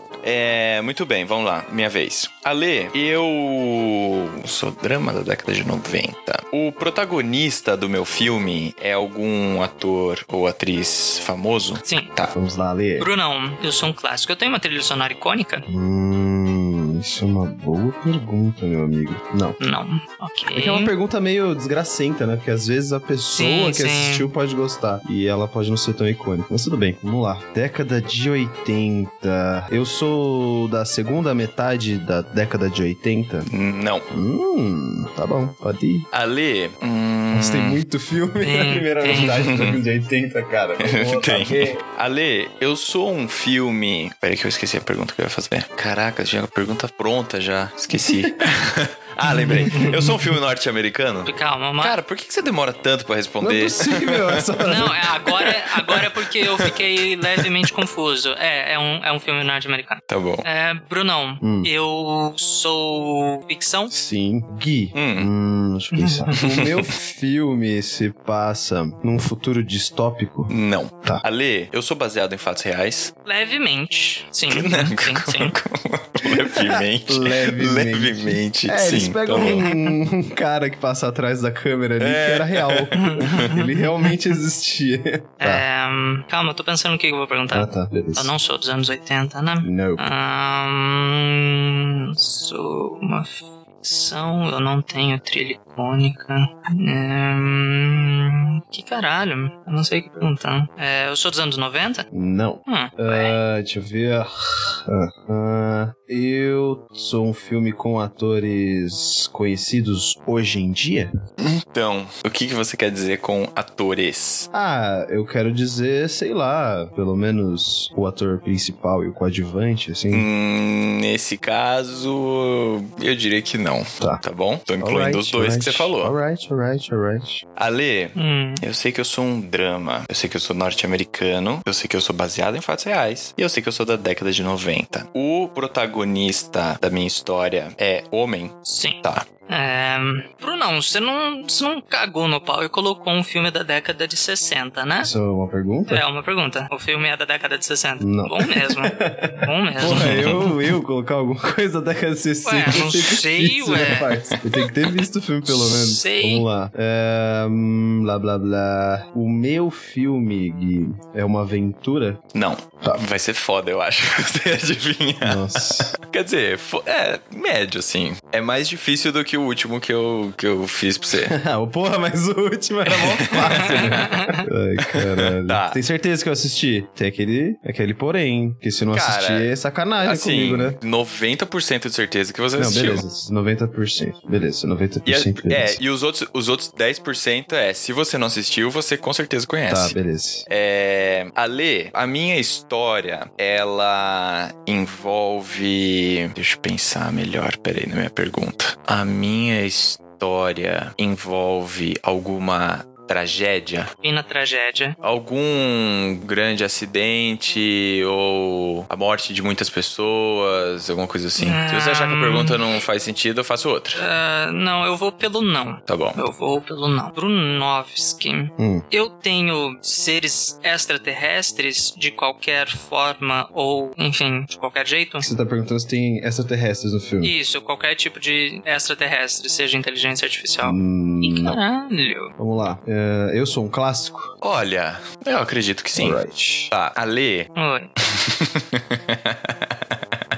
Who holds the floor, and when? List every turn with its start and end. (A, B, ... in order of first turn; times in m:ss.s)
0:00.2-0:12.3 A
0:11.8-0:12.1 B
0:12.3-0:13.1 C
0:13.0-0:15.7 B
0:15.7-0:19.6 C
0:19.6-0:20.9 B
0:20.5-0:33.5 C
0:23.3-0:24.3 B
0:33.5-0:34.1 A
0:34.1-0:36.1 C
0:36.1-0:37.8 A
0:37.3-0:41.8 C
0:38.4-0:39.5 B
0:39.3-0:39.8 A
0:40.8-0:54.5 A
0:47.9-0:48.5 C
0:49.3-0:50.2 C
0:49.6-0:50.0 B
0:51.2-0:52.0 B
0:53.4-0:55.3 C
0:54.6-1:03.9 B
1:00.1-1:00.4 A
1:01.4-1:01.7 C
1:03.9-1:10.5 C
1:05.0-1:05.3 A
1:05.9-1:06.3 B
1:06.3-1:06.9 A
1:10.5-1:13.1 A
1:13.2-1:15.6 B
1:14.5-1:19.7 A
1:16.2-1:25.6 C
1:19.5-1:19.9 B
1:22.0-1:23.6 A
1:23.0-1:24.1 B
1:25.4-1:42.1 B
1:27.5-1:28.3 C
1:29.6-1:30.0 C
1:42.1-1:51.1 C
1:42.7-1:43.4 B
1:51.4-1:54.5 A
1:54.5-2:00.3 C
2:00.1-2:06.2 A
2:04.8-2:07.4 C
2:07.6-2:19.3 A
2:08.2-2:08.6 B
2:18.6-2:25.1 B
2:25.0-2:26.0 C
2:25.9-2:30.5 B
2:28.0-2:42.2 C
2:29.8-2:30.6 A
2:32.4-2:34.7 B
2:35.5-2:36.5 B
2:42.3-2:51.4 A
2:45.2-2:45.9 C
2:51.2-3:00.8 C
2:52.9-2:54.0 A
2:53.5-2:54.4 B
2:54.8-2:55.8 A
2:58.9-2:59.5 A
3:00.0-3:03.0 A
3:02.6-3:05.8 C
3:05.1-3:10.0 A
3:09.7-3:10.5 C
3:10.5-3:23.9 A
3:24.0-3:25.0 B
3:25.0-3:34.0 A
3:31.4-3:32.6 B
3:34.0-3:45.3 B
3:35.9-3:36.2 A
3:38.6-3:38.8 C
3:45.2-3:47.3 C
3:47.2-3:52.3 B
3:50.6-3:51.6 C
3:52.4-3:54.4 C
3:54.4-3:57.5 A
3:56.0-3:56.7 C
3:57.6-3:57.9 B
3:58.1-4:00.0 A